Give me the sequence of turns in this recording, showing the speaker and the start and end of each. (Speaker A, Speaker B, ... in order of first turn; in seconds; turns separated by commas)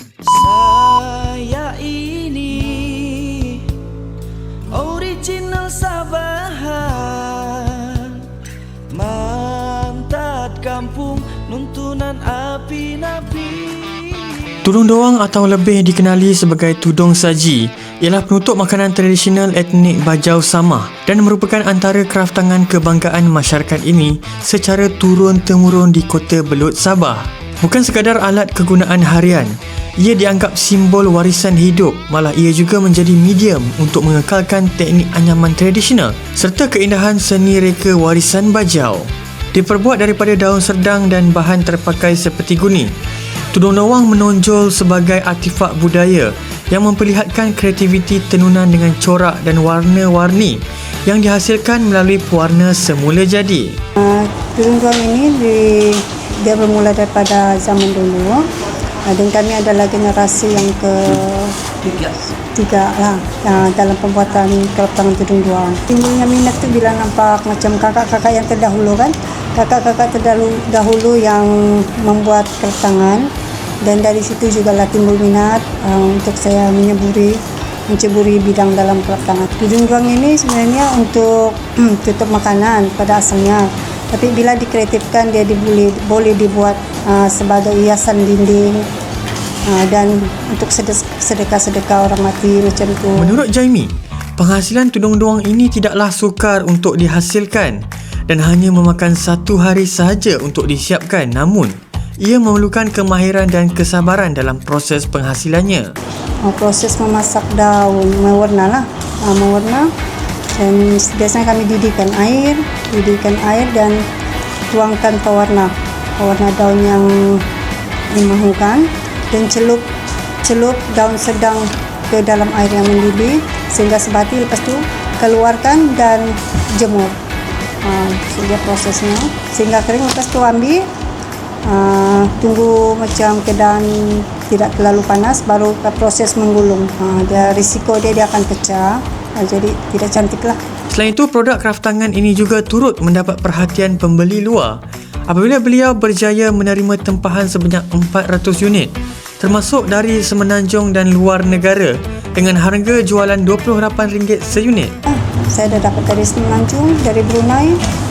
Speaker A: 0.3-3.6, Speaker A: 4.7-8.2, Speaker A: 8.9-14.5, Speaker B: 14.6-42.9, Speaker B: 43.5-53.8, Speaker C: 54.0-58.4, Speaker C: 59.0-73.3, Speaker C: 73.8-88.8, Speaker C: 89.7-93.4, Speaker B: 93.2-105.9, Speaker C: 106.4-109.9, Speaker C: 110.5-114.0, Speaker C: 114.7-117.5, Speaker C: 118.1-119.8, Speaker C: 120.4-127.2, Speaker C: 127.8-130.8, Speaker C: 131.7-140.6, Speaker B: 140.9-154.9, Speaker C: 155.1-157.8